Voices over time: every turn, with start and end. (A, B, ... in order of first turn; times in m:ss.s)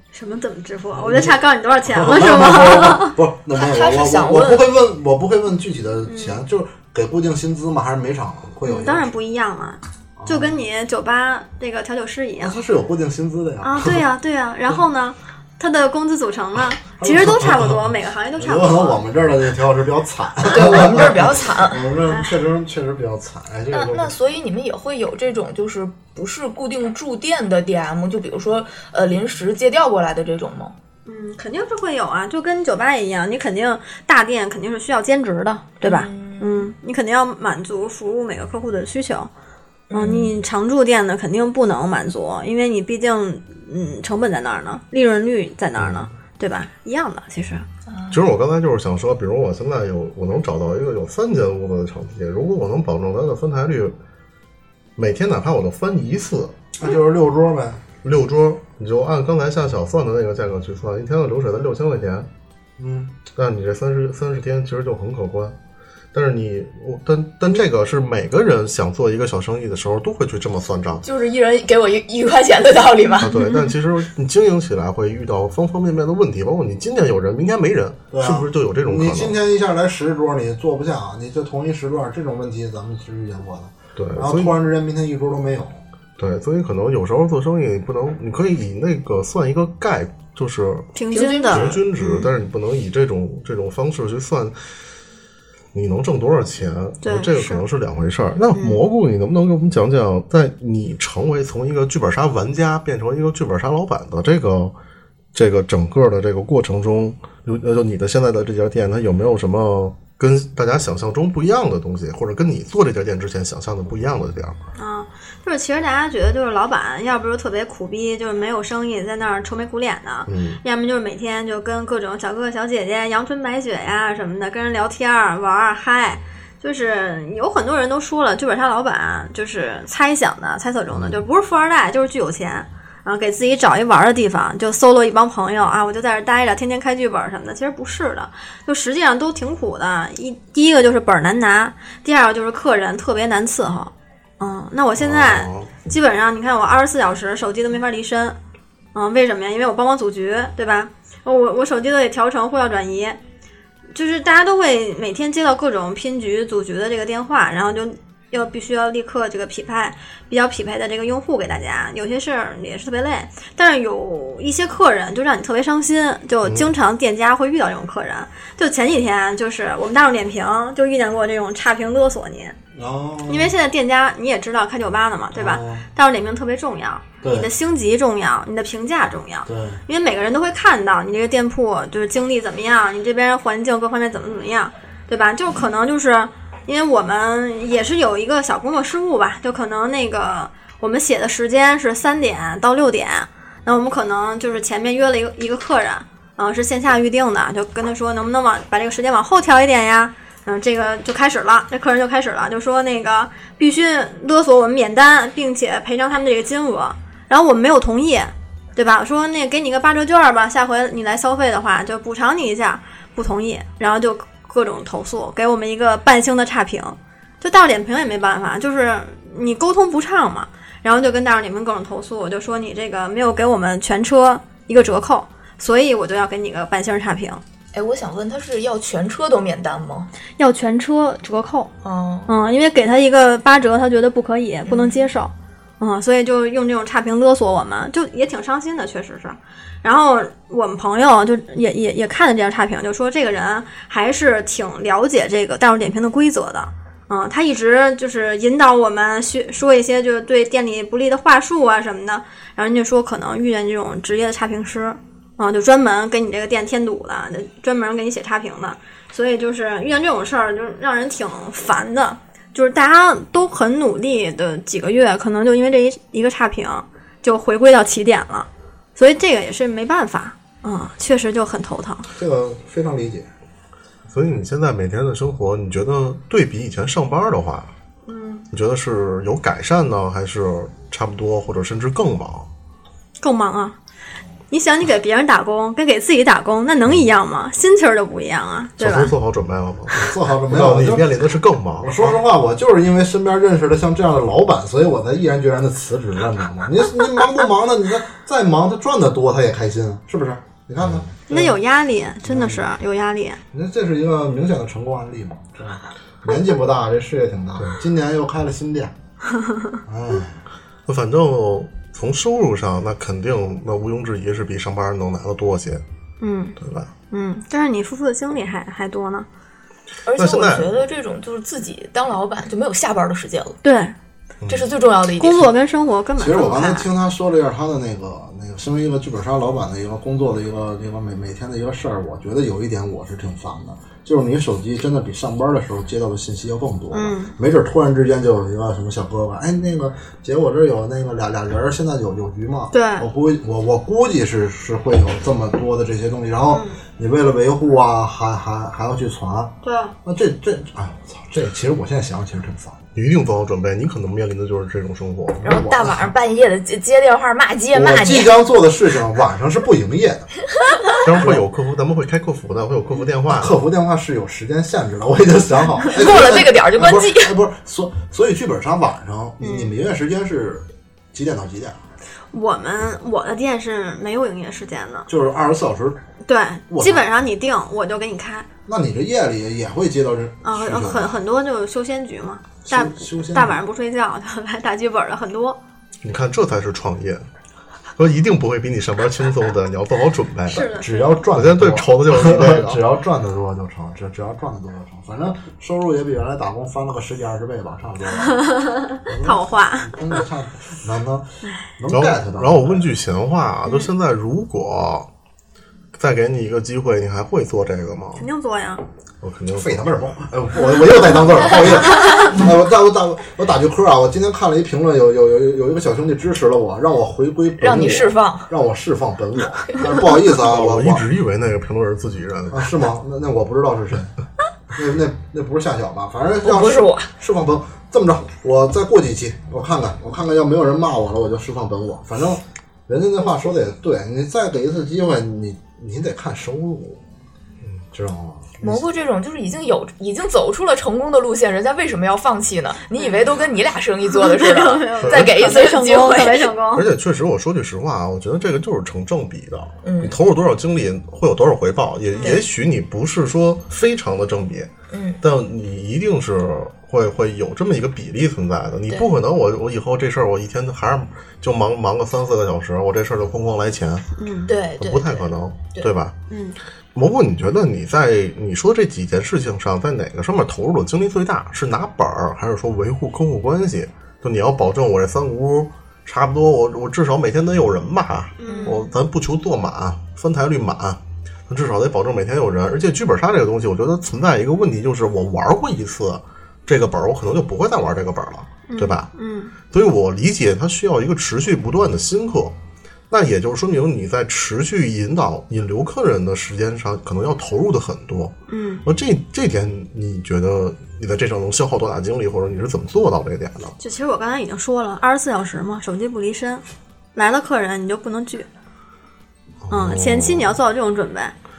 0:00.1-0:03.2 A
0:00.9-0:09.1 B
0:03.5-0:04.7 C
0:06.1-0:06.4 A
0:08.6-0:12.6 A
0:10.2-0:10.6 B
0:12.4-0:14.0 B
0:13.6-0:19.0 A
0:17.0-0:24.1 B
0:20.4-0:21.9 C
0:23.7-0:30.7 C
0:31.0-0:39.3 A
0:35.8-0:36.7 C
0:39.9-0:40.4 C
0:39.9-0:47.6 A
0:45.8-0:46.1 D
0:47.9-0:48.3 C
0:48.1-0:54.0 D
0:55.0-0:56.5 D
0:56.8-0:57.8 B
0:58.0-1:02.3 D
1:02.8-1:03.2 B
1:03.3-1:05.6 D
1:06.1-1:11.0 D
1:11.0-1:13.3 C
1:13.2-1:19.4 D
1:13.2-1:13.7 A
1:18.1-1:25.8 B
1:24.0-1:24.5 D
1:26.2-1:30.9 D
1:30.9-1:32.3 A
1:31.1-1:31.8 C
1:31.5-1:34.6 D
1:35.7-1:44.7 D
1:37.0-1:37.6 A
1:38.5-1:38.8 A
1:45.3-1:54.6 D
1:54.7-2:28.4 A
2:00.3-2:00.6 D
2:25.0-2:25.7 D
2:28.9-2:33.2 A
2:33.9-2:52.5 A
2:46.4-2:46.7 D
2:52.7-2:53.6 B
2:53.3-3:47.4 A
2:55.3-2:55.8 B
2:57.2-2:57.5 B
2:59.4-2:59.8 B
3:47.7-3:50.1 C
3:50.4-3:51.7 A
3:51.8-3:52.3 C
3:52.3-4:32.1 A
3:54.6-3:55.1 C
4:32.1-4:33.3 B
4:34.1-4:37.7 D
4:38.1-4:38.5 A
4:38.5-4:42.5 D
4:43.2-4:43.8 A
4:44.5-4:49.1 A
4:48.8-4:52.1 D
4:50.0-4:51.2 B
4:51.8-5:01.6 B
5:00.8-5:01.0 D
5:01.3-5:03.4 A
5:02.2-5:02.7 B
5:03.5-5:08.9 B
5:09.8-5:10.4 B
5:10.8-5:15.8 D
5:16.2-5:16.6 A
5:16.6-5:16.9 D
5:17.1-5:19.3 A
5:20.0-5:23.6 C
5:20.2-5:20.7 D
5:23.6-5:23.9 A
5:24.4-5:24.7 D
5:24.5-5:25.5 C
5:25.2-5:26.9 A
5:26.2-5:52.8 B
5:36.9-5:37.4 A
5:42.7-5:43.1 A
5:46.5-5:46.8 A
5:49.6-5:49.9 A
5:52.9-5:55.4 D
5:55.4-5:56.1 B
5:55.4-5:58.3 C
5:57.7-6:00.3 B
6:01.0-6:03.5 D
6:01.1-6:01.4 B
6:03.2-6:11.8 B
6:05.9-6:07.4 C
6:09.4-6:09.8 A
6:12.3-6:15.1 A
6:15.1-6:16.0 B
6:16.2-6:18.5 A
6:16.7-6:17.1 B
6:18.6-6:21.2 B
6:20.4-6:25.6 A
6:22.6-6:23.6 B
6:26.0-6:27.3 D
6:28.0-6:30.7 D
6:30.5-6:31.2 A
6:30.5-6:38.4 B
6:31.3-6:32.8 D
6:38.3-6:40.2 A
6:39.0-6:42.9 B
6:41.9-6:45.1 D
6:46.0-6:48.2 D
6:48.2-6:48.8 A
6:49.2-6:49.9 D
6:49.5-7:01.0 B
6:57.6-6:58.5 C
7:00.3-7:02.7 D
7:02.5-7:04.1 B
7:04.7-7:17.0 B
7:06.4-7:07.1 C
7:17.9-7:18.9 B
7:18.6-7:26.5 C
7:24.1-7:26.8 A
7:25.0-7:25.4 D
7:26.7-7:44.1 D
7:29.8-7:30.1 C
7:32.2-7:32.4 C
7:34.9-7:35.2 C
7:44.2-7:44.5 A
7:44.5-7:45.9 C
7:44.8-7:46.1 D
7:46.3-7:46.6 A
7:46.9-8:09.1 D
7:58.4-7:58.8 A
7:58.4-7:58.9 C
8:08.7-8:09.5 A
8:09.7-8:12.6 D
8:13.1-8:23.7 D
8:18.5-8:18.8 A
8:23.8-8:26.6 A
8:27.1-8:28.5 A
8:29.6-8:30.6 D
8:29.7-8:31.3 A